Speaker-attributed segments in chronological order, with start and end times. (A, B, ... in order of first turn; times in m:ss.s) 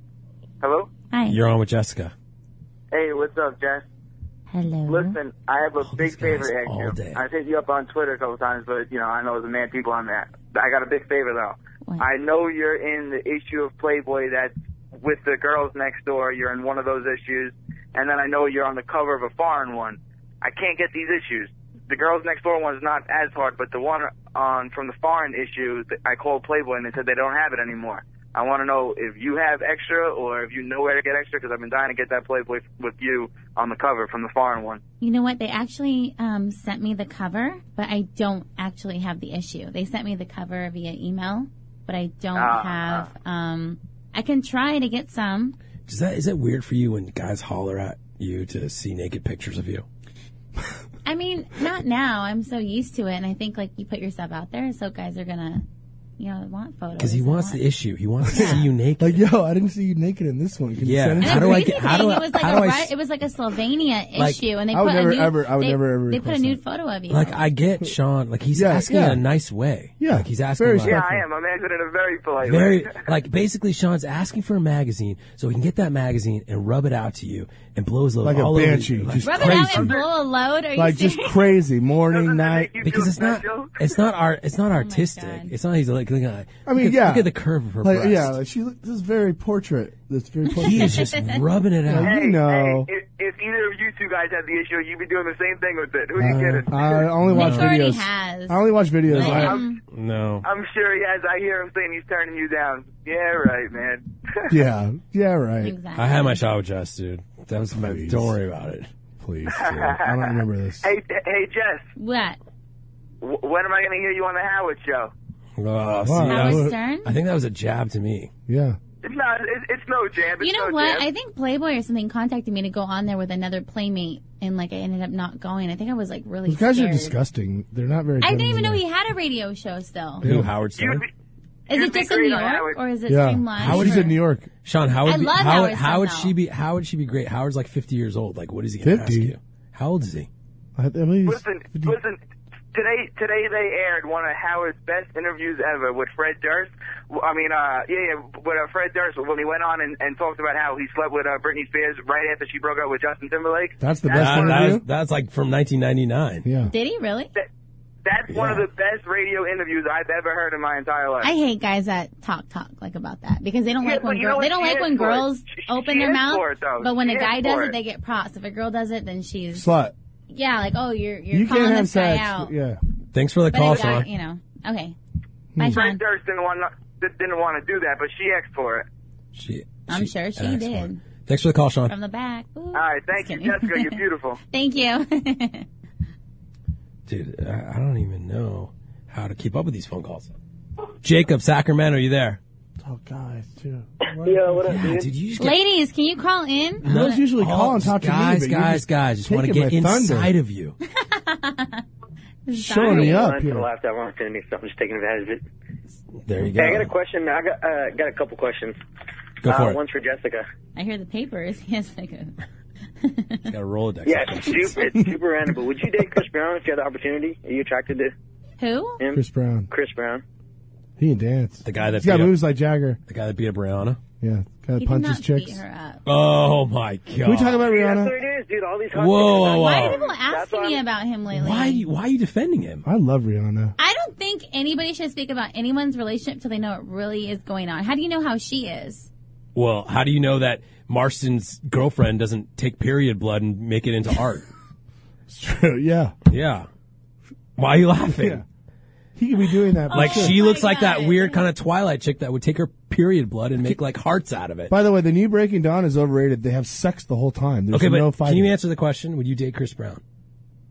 0:00.6-0:00.9 A
0:01.1-0:01.4 B
0:01.3-0:02.1 C
0:02.9-0:03.8 A
0:04.5-0:05.2 B
0:04.9-0:34.8 A
0:05.8-0:07.2 C
0:35.0-0:45.6 B
0:42.4-0:43.1 A
0:45.8-0:49.8 C
0:51.0-0:55.6 B
0:56.2-0:57.6 B
0:57.0-0:59.2 C
0:58.3-0:58.7 B
0:58.4-1:01.8 D
1:00.8-1:02.9 C
1:01.2-1:07.4 B
1:04.2-1:04.4 C
1:04.7-1:06.6 D
1:07.1-1:11.2 C
1:08.5-1:09.2 D
1:10.0-1:11.2 D
1:10.8-1:13.0 A
1:12.4-1:20.0 C
1:18.2-1:20.0 D
1:19.2-1:21.5 B
1:20.8-1:22.7 D
1:22.1-1:23.8 A
1:22.8-1:28.4 C
1:24.7-1:25.5 B
1:26.6-1:27.3 D
1:27.8-1:31.0 D
1:30.5-1:31.4 B
1:30.6-1:32.2 C
1:31.9-1:32.9 D
1:32.0-1:37.0 A
1:36.2-1:39.6 D
1:36.2-1:36.7 C
1:37.3-1:37.7 C
1:37.3-1:38.6 B
1:39.1-1:40.5 C
1:39.2-1:39.8 B
1:40.4-1:44.5 A
1:44.5-1:45.7 D
1:45.6-1:46.4 B
1:46.0-1:48.9 C
1:47.7-1:48.3 D
1:49.2-1:50.9 D
1:49.6-1:51.9 A
1:49.6-1:49.9 C
1:52.0-1:52.4 B
1:53.2-1:55.1 A
1:55.6-1:58.3 C
1:56.0-1:56.7 D
1:56.2-1:57.1 B
1:58.5-1:58.8 D
1:59.0-2:01.0 A
2:00.4-2:07.2 B
2:06.4-2:08.8 D
2:08.2-2:10.2 B
2:10.2-2:10.5 D
2:10.2-2:11.0 C
2:10.8-2:11.0 A
2:11.7-2:14.1 B
2:11.7-2:12.8 A
2:13.1-2:14.5 D
2:13.6-2:20.3 C
2:15.0-2:16.3 B
2:18.8-2:19.3 D
2:20.8-2:22.0 D
2:21.2-2:22.2 A
2:22.7-2:34.5 A
2:33.8-2:34.8 D
2:34.1-2:36.5 C
2:36.4-2:36.7 D
2:36.7-2:37.3 B
2:38.0-2:41.3 A
2:38.3-2:38.7 C
2:41.2-2:49.7 B
2:43.8-2:47.7 A
2:49.5-2:49.9 D
2:50.3-2:52.5 B
2:51.3-2:52.8 D
2:53.1-2:54.1 C
2:53.5-2:55.0 B
2:55.5-2:55.8 D
2:55.6-2:56.0 B
2:55.7-2:58.9 A
2:59.3-3:01.9 C
2:59.9-3:01.0 B
3:01.9-3:05.6 B
3:02.7-3:04.4 A
3:07.1-3:10.3 C
3:11.0-3:12.4 C
3:12.8-3:15.0 D
3:14.6-3:15.6 C
3:15.4-3:17.2 B
3:16.8-3:20.3 D
3:16.8-3:20.8 C
3:21.0-3:21.8 B
3:22.4-3:23.4 B
3:22.5-3:23.7 D
3:22.8-3:25.4 E
3:26.2-3:26.9 C
3:26.6-3:28.8 E
3:29.4-3:29.8 C
3:29.4-3:30.4 E
3:30.8-3:32.4 B
3:33.0-3:33.5 B
3:33.5-3:34.8 C
3:34.0-3:38.1 E
3:38.6-3:39.0 B
3:39.1-3:39.7 D
3:39.7-3:40.2 E
3:41.0-3:43.0 D
3:41.6-3:42.4 C
3:43.1-3:44.0 C
3:44.2-3:45.6 D
3:44.8-3:46.0 B
3:46.0-3:47.7 C
3:47.2-3:48.1 D
3:47.6-3:50.8 E
3:48.9-3:50.0 C
3:49.5-3:51.8 B
3:51.3-3:52.8 C
3:52.8-3:53.7 D
3:53.8-3:59.1 B
3:59.5-4:04.5 C
4:05.3-4:06.1 D
4:06.3-4:06.7 C
4:07.6-4:08.4 C
4:08.1-4:08.4 D
4:09.2-4:10.4 D
4:09.9-4:11.5 B
4:09.9-4:14.7 C
4:14.7-4:18.5 D
4:17.7-4:20.0 C